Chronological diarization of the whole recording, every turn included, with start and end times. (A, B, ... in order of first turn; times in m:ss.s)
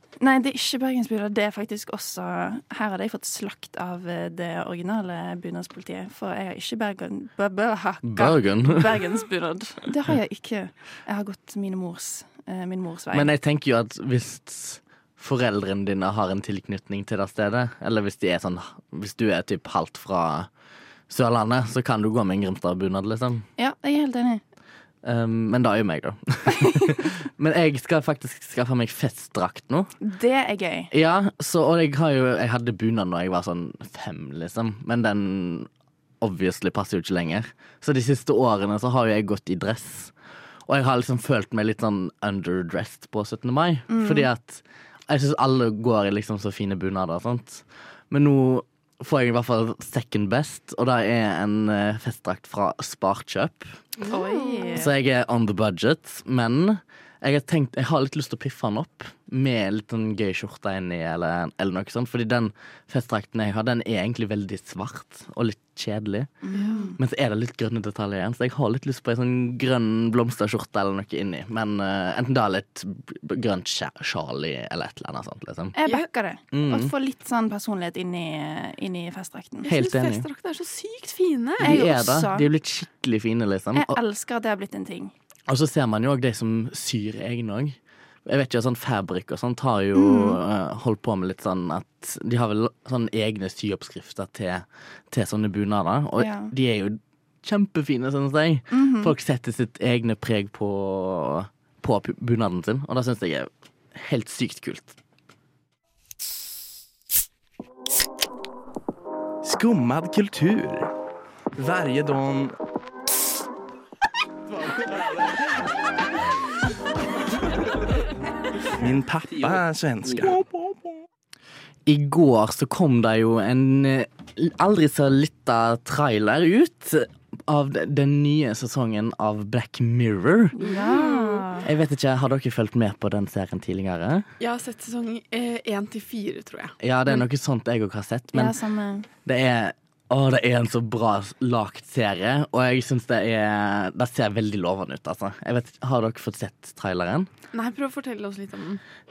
0:00.2-0:13.3 A
0:08.0-0:09.1 B
0:13.1-0:20.5 B
0:21.1-0:23.4 B
0:23.6-0:24.4 A
0:25.0-0:29.9 B
0:30.0-0:30.9 A
0:30.9-0:35.7 B
0:36.2-0:40.1 B
0:40.7-0:53.8 B
0:43.9-0:44.3 A
0:54.0-0:54.8 C
0:54.1-0:54.9 A
0:54.8-1:15.8 B
1:06.4-1:07.0 A
1:15.8-1:19.7 A
1:16.5-1:16.9 B
1:19.6-1:21.7 C
1:19.7-1:20.3 B
1:21.6-1:24.0 B
1:21.6-1:22.5 A
1:23.7-1:25.1 A
1:25.5-1:45.0 B
1:29.9-1:30.4 A
1:36.2-1:36.5 A
1:38.7-1:39.2 A
1:49.4-1:50.9 D
1:51.6-1:52.5 D
1:58.8-2:00.4 D
2:01.9-2:10.6 B
2:10.6-2:11.7 A
2:10.6-2:11.5 C
2:11.6-2:14.3 B
2:14.4-2:16.8 C
2:16.8-2:18.6 B
2:18.3-2:19.1 A
2:19.2-2:27.3 B
2:27.5-2:28.8 C